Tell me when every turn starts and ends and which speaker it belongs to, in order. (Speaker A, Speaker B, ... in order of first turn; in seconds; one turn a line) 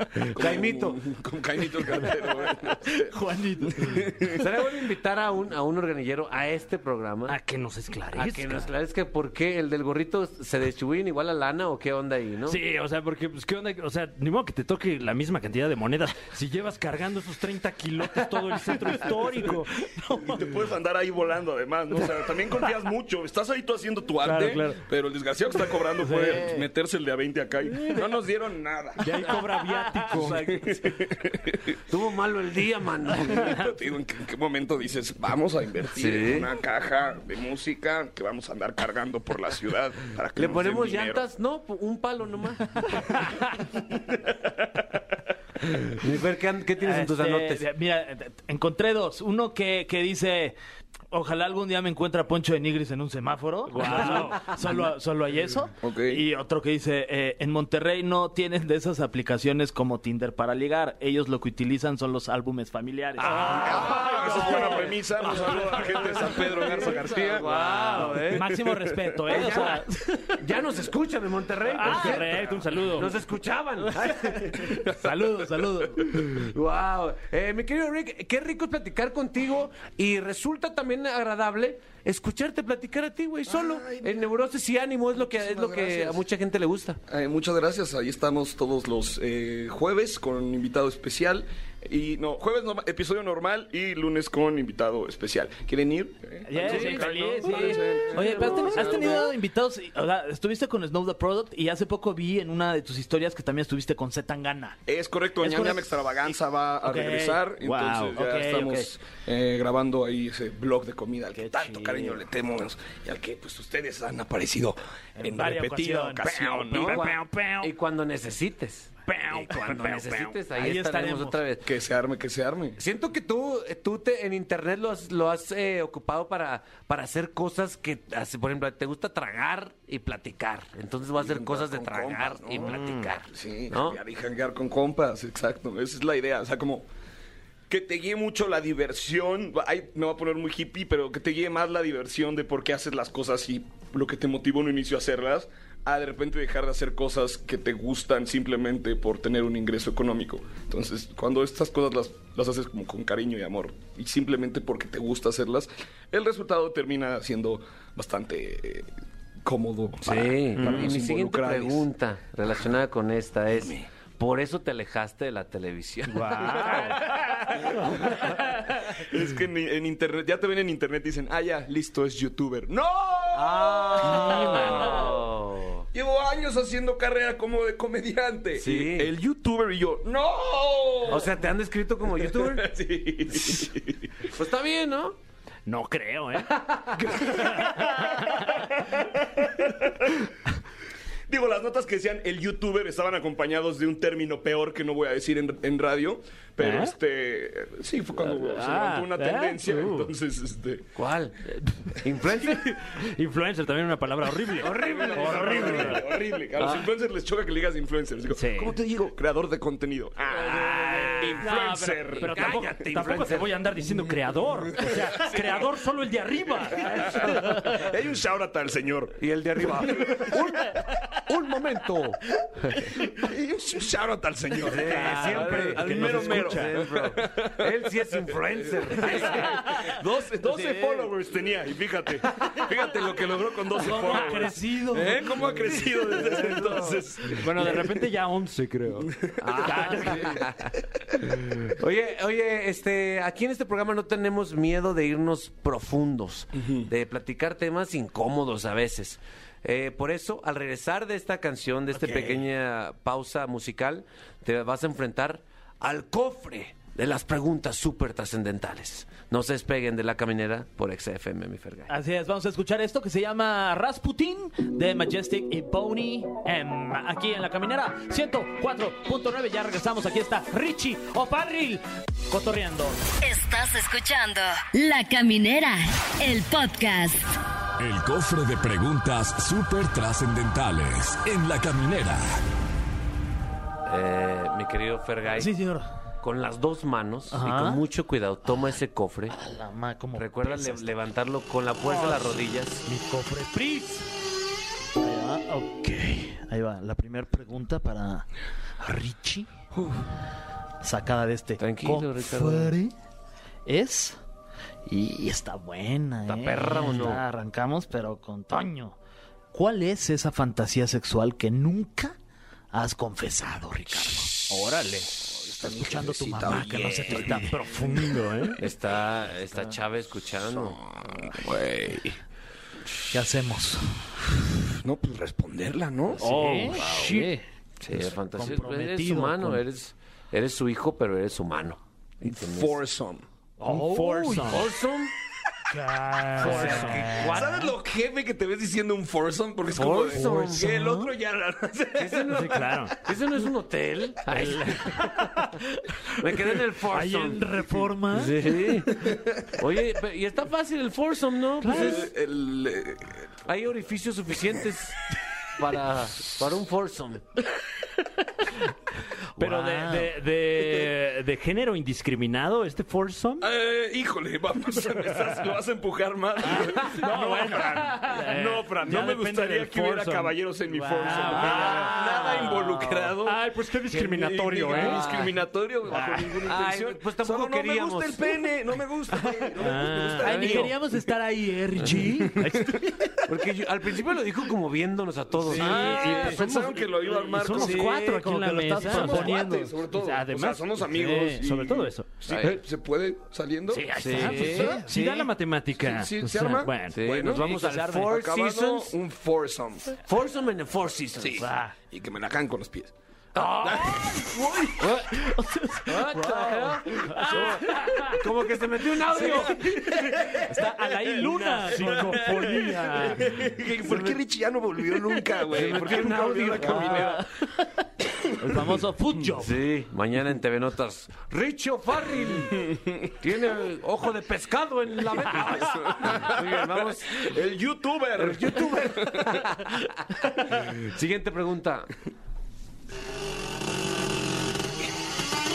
Speaker A: 0.2-1.0
Speaker B: 0.3-3.1
Speaker C: 2.9-4.1
Speaker B: 3.6-4.6
Speaker A: 4.3-7.4
Speaker D: 7.3-8.7
Speaker A: 8.2-12.6
Speaker D: 12.5-19.9
Speaker C: 19.9-20.4
Speaker B: 20.2-29.3
Speaker D: 24.2-24.8
Speaker C: 26.0-26.7
Speaker D: 29.0-30.5
Speaker C: 29.1-30.7
Speaker B: 30.1-31.8
Speaker A: 31.9-33.6
Speaker B: 33.2-41.2
Speaker A: 36.0-36.5
Speaker A: 40.4-42.9
Speaker A: 45.9-47.6
Speaker C: 46.8-50.6
Speaker C: 51.1-64.8
Speaker D: 53.7-54.7
Speaker B: 55.8-56.2
Speaker D: 63.2-64.9
Speaker B: 63.4-69.7
Speaker A: 63.5-64.0
Speaker A: 66.5-68.5
Speaker C: 66.8-70.4
Speaker A: 69.3-69.8
Speaker A: 70.4-75.1
Speaker D: 71.7-73.2
Speaker C: 71.8-72.3
Speaker C: 73.9-76.2
Speaker A: 76.1-87.0
Speaker B: 83.5-84.3
Speaker B: 85.2-86.2
Speaker B: 87.1-99.3
Speaker C: 96.5-104.8
Speaker B: 104.9-117.0
Speaker C: 105.4-108.9
Speaker C: 111.3-112.2
Speaker C: 115.2-117.7
Speaker A: 116.7-121.7
Speaker C: 119.2-121.4
Speaker D: 119.4-120.0
Speaker B: 121.6-122.8
Speaker A: 122.8-134.0
Speaker B: 131.2-136.9
Speaker D: 132.7-132.9
Speaker B: 137.7-158.9
Speaker B: 159.4-161.9
Speaker A: 160.1-167.0
Speaker D: 160.6-160.8
Speaker B: 163.6-163.8
Speaker D: 166.1-167.2
Speaker B: 166.8-175.1
Speaker D: 167.8-168.6
Speaker A: 173.3-175.9
Speaker D: 174.0-175.1
Speaker B: 175.9-181.4
Speaker A: 178.6-179.1
Speaker A: 181.1-182.7
Speaker B: 182.0-184.2
Speaker A: 184.2-185.2
Speaker D: 185.7-186.5
Speaker A: 186.5-187.1
Speaker D: 187.0-188.7
Speaker B: 187.1-190.1
Speaker B: 191.3-200.9
Speaker D: 196.6-196.9
Speaker D: 198.2-200.1
Speaker A: 201.0-201.4
Speaker D: 201.6-206.1
Speaker A: 202.0-202.8
Speaker A: 204.6-206.1
Speaker B: 204.6-213.3
Speaker A: 206.6-206.9
Speaker D: 208.3-208.8
Speaker C: 210.4-211.4
Speaker D: 210.6-217.8
Speaker A: 212.1-213.6
Speaker B: 214.7-215.8
Speaker B: 216.6-220.4
Speaker A: 219.2-222.8
Speaker B: 223.0-238.1
Speaker A: 224.6-229.7
Speaker D: 224.8-226.9
Speaker C: 230.4-231.1
Speaker C: 233.8-235.8
Speaker D: 233.9-234.8
Speaker D: 236.2-240.4
Speaker B: 239.0-240.5
Speaker A: 239.4-240.7
Speaker A: 241.8-261.9
Speaker C: 251.9-252.4
Speaker C: 261.9-273.0
Speaker E: 273.2-277.2
Speaker F: 277.8-282.4
Speaker A: 283.9-285.6
Speaker C: 285.3-285.9
Speaker A: 286.2-289.4
Speaker C: 287.3-287.9
Speaker C: 288.4-288.8
Speaker C: 289.3-291.1
Speaker A: 290.1-292.9
Speaker C: 291.8-294.1
Speaker C: 295.0-298.3
Speaker C: 298.8-299.5
Speaker C: 300.8-302.9
Speaker A: 301.6-302.8
Speaker C: 303.7-304.2
Speaker C: 304.9-309.0
Speaker A: 306.3-307.2
Speaker C: 309.5-312.1
Speaker C: 312.7-314.4
Speaker D: 314.5-315.1
Speaker C: 315.4-317.6
Speaker B: 315.6-318.1
Speaker D: 317.3-318.6
Speaker A: 318.6-320.8
Speaker C: 319.5-319.8
Speaker B: 320.5-322.2
Speaker C: 323.1-324.2
Speaker B: 324.8-326.2
Speaker C: 326.2-327.4
Speaker D: 326.2-327.3
Speaker A: 327.9-332.8
Speaker C: 328.3-329.6
Speaker B: 332.2-333.2
Speaker C: 333.6-334.6
Speaker D: 333.7-334.6
Speaker A: 334.5-335.1
Speaker C: 335.7-337.4
Speaker D: 336.3-337.1
Speaker A: 336.4-337.8
Speaker B: 336.4-343.1
Speaker A: 339.7-340.6
Speaker D: 340.2-340.5
Speaker C: 340.5-341.1
Speaker A: 342.0-345.2
Speaker D: 342.3-343.0
Speaker D: 344.3-345.2
Speaker A: 346.2-347.4
Speaker D: 346.9-348.0
Speaker C: 347.2-348.4
Speaker A: 348.1-352.1
Speaker B: 349.0-349.6
Speaker D: 351.6-352.1
Speaker B: 351.7-353.3
Speaker A: 353.5-355.1
Speaker A: 355.6-357.2
Speaker C: 359.4-360.2
Speaker D: 359.4-363.5
Speaker B: 363.4-380.8
Speaker D: 366.4-375.0
Speaker C: 370.9-371.9
Speaker A: 371.3-373.0
Speaker A: 374.7-375.4
Speaker D: 375.9-376.4
Speaker A: 376.4-378.3
Speaker D: 379.6-380.8
Speaker C: 380.2-383.2
Speaker B: 382.4-382.9
Speaker A: 383.3-386.3
Speaker C: 385.5-386.4
Speaker B: 385.5-388.1
Speaker D: 385.6-392.1
Speaker C: 387.5-389.8
Speaker B: 388.8-394.6
Speaker C: 390.9-391.5
Speaker A: 392.3-392.6
Speaker C: 393.8-395.3
Speaker D: 393.9-397.0
Speaker A: 394.0-394.8
Speaker B: 395.8-399.9
Speaker A: 396.9-399.0
Speaker C: 397.2-398.1
Speaker A: 400.0-401.5
Speaker B: 401.2-402.9
Speaker C: 401.4-401.8
Speaker A: 403.4-404.1
Speaker B: 403.6-404.6
Speaker C: 404.0-408.1
Speaker A: 404.8-405.1
Speaker A: 405.9-409.8
Speaker B: 407.1-407.8
Speaker C: 409.1-412.4
Speaker D: 411.2-413.3
Speaker B: 411.9-417.3
Speaker A: 413.9-414.2
Speaker A: 415.5-417.2
Speaker C: 416.8-417.2
Speaker C: 418.4-419.6
Speaker A: 419.3-427.3
Speaker B: 425.3-429.5
Speaker A: 428.2-431.9